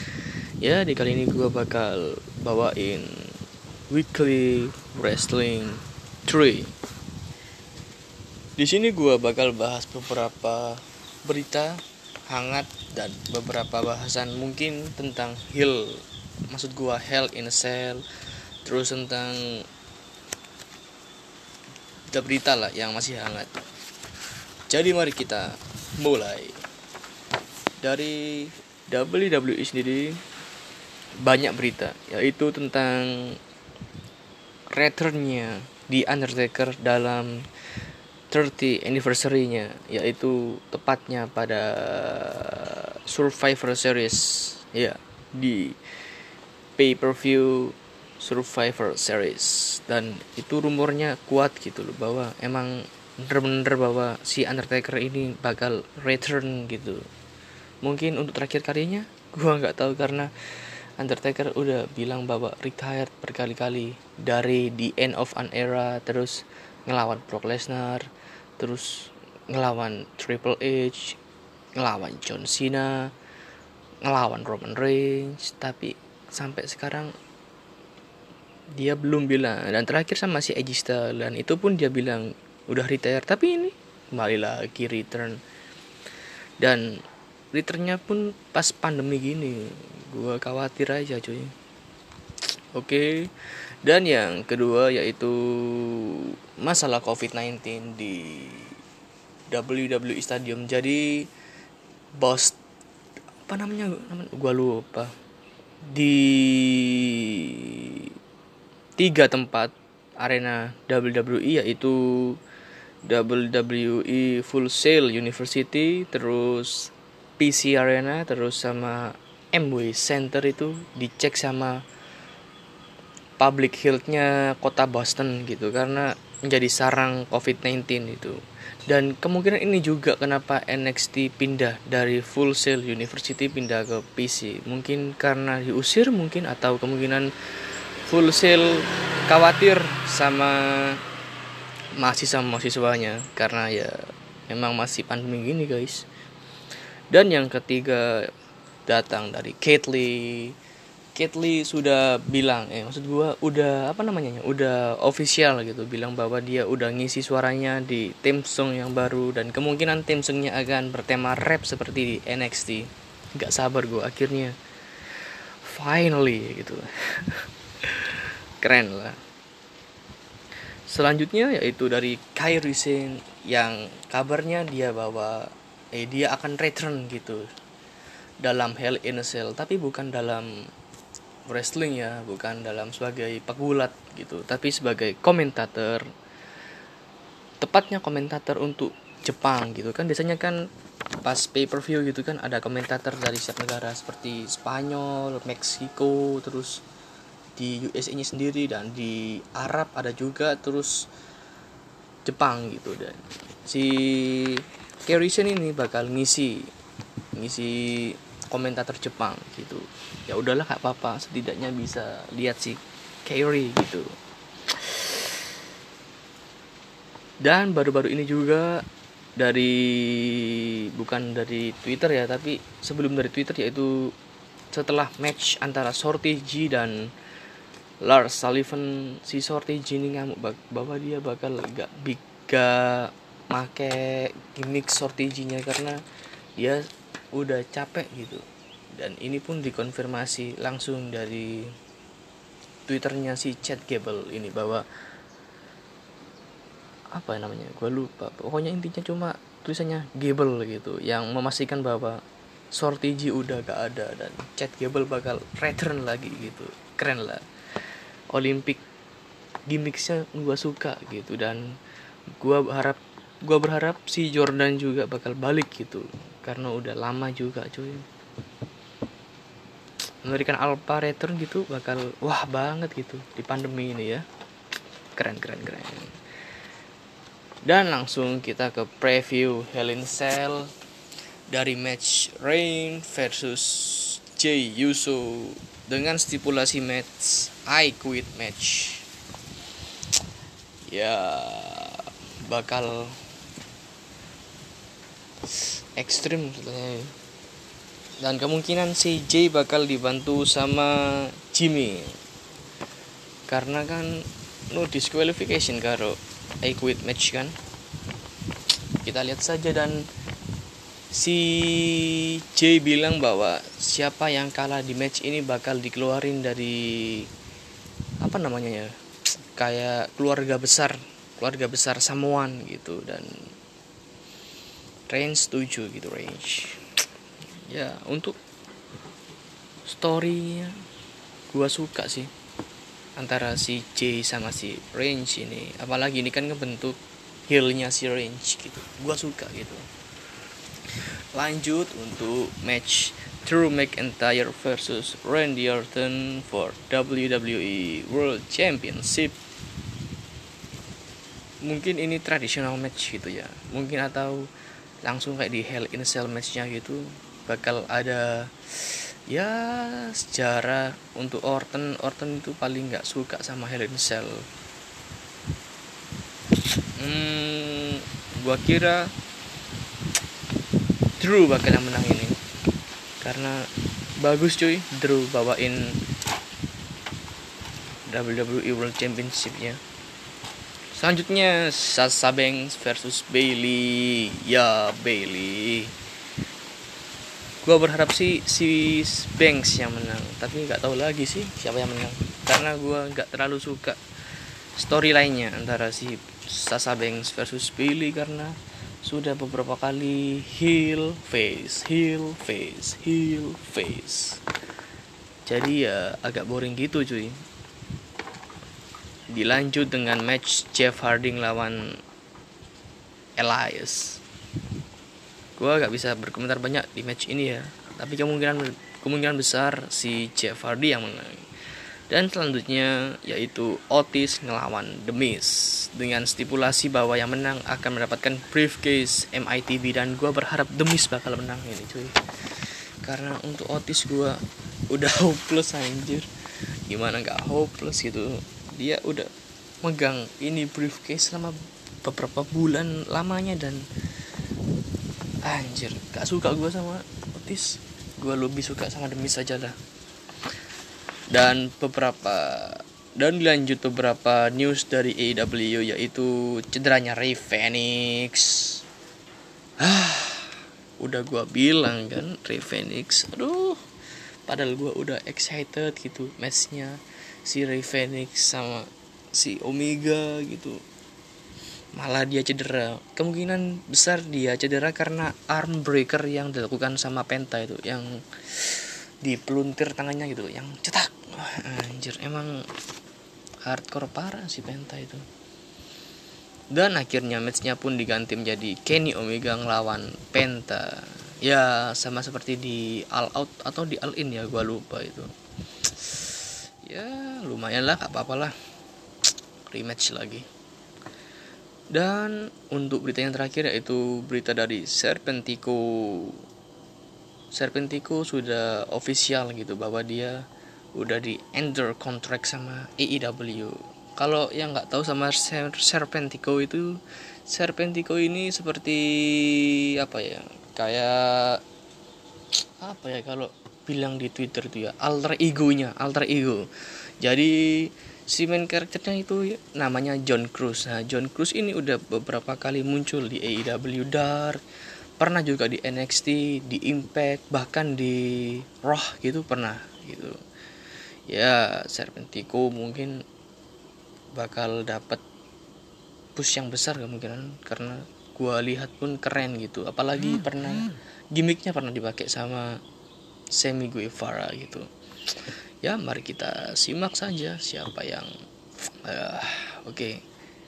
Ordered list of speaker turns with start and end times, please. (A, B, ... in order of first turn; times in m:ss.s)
0:00.6-0:03.4 A
0:03.9-0:06.7 A
0:08.6-0:18.0 A
0:18.6-0:19.4 A
0:22.1-0:23.6 A
0:24.7-0:26.6 A
0:27.8-0:30.2 A
0:31.2-0:33.4 A
0:34.7-0:37.4 A
0:38.3-0:45.8 A
0:46.8-0:57.0 A
0:57.8-1:00.3 A
1:01.0-1:08.1 A
1:08.6-1:11.2 A
1:11.8-1:13.1 A
1:14.0-1:17.1 A
1:18.8-1:25.4 A
1:27.5-1:31.5 A
1:32.8-1:33.3 A
1:33.8-1:38.8 A
1:39.5-1:41.2 A
1:42.2-1:42.6 A
1:43.4-1:45.1 A
1:45.9-1:48.1 A
1:49.0-1:52.4 A
1:53.1-2:01.8 A
2:03.4-2:08.4 A
2:08.9-2:17.3 A
2:18.1-2:21.0 A
2:22.0-2:26.0 A
2:27.1-2:28.3 A
2:28.9-2:30.5 A
2:31.2-2:44.5 A
2:45.6-2:49.2 A
2:50.9-2:57.5 A
2:58.4-3:00.5 A
3:01.5-3:06.1 A
3:07.6-3:10.6 A
3:11.2-3:16.8 A
3:17.6-3:21.1 A
3:22.3-3:26.7 A
3:27.4-3:34.1 A
3:34.7-3:35.4 A
3:37.4-3:38.8 A
3:39.4-3:44.1 A
3:44.7-3:47.1 A
3:48.0-3:56.0 A
3:56.6-3:56.8 A
3:57.4-3:58.4 A
3:59.0-4:01.7 A
4:02.9-4:04.8 A
4:07.1-4:12.2 A
4:12.7-4:17.4 A
4:18.3-4:18.8 A
4:19.7-4:21.6 A
4:22.4-4:28.0 A
4:30.2-4:34.2 A
4:35.2-4:36.1 A
4:37.7-4:40.7 A
4:41.5-4:49.0 A
4:50.9-4:53.2 A
4:55.5-4:57.1 A
4:58.2-5:02.2 A
5:03.5-5:07.6 A
5:09.0-5:10.1 A
5:11.1-5:17.3 A
5:18.2-5:18.9 A
5:19.6-5:23.3 A
5:25.1-5:26.8 A
5:27.7-5:28.4 A
5:29.8-5:30.7 A
5:31.5-5:32.3 A
5:33.2-5:39.8 A
5:41.3-5:49.4 A
5:51.7-5:54.5 A
5:55.0-6:04.4 A
6:07.0-6:09.1 A
6:11.2-6:12.4 A
6:13.2-6:13.7 A
6:14.2-6:15.8 A
6:18.1-6:19.8 A
6:21.0-6:25.9 A
6:27.6-6:34.0 A
6:34.8-6:44.4 A
6:45.5-6:47.4 A
6:49.3-6:51.9 A
6:53.4-6:54.2 A
6:55.6-7:01.5 A
7:02.1-7:16.3 A
7:16.9-7:19.3 A
7:19.8-7:23.9 A
7:25.4-7:29.8 A
7:31.3-7:38.8 A
7:39.8-7:43.8 A
7:44.5-7:50.8 A
7:52.0-8:02.6 A
8:03.6-8:05.2 A
8:06.7-8:15.3 A
8:15.8-8:18.5 A
8:19.7-8:20.4 A
8:21.9-8:26.4 A
8:27.5-8:30.4 A
8:31.0-8:41.6 A
8:42.8-8:46.7 A
8:47.2-8:54.6 A
8:55.2-9:00.4 A
9:01.3-9:03.2 A
9:04.4-9:05.2 A
9:06.4-9:12.8 A
9:13.5-9:14.9 A
9:15.8-9:18.3 A
9:18.8-9:20.2 A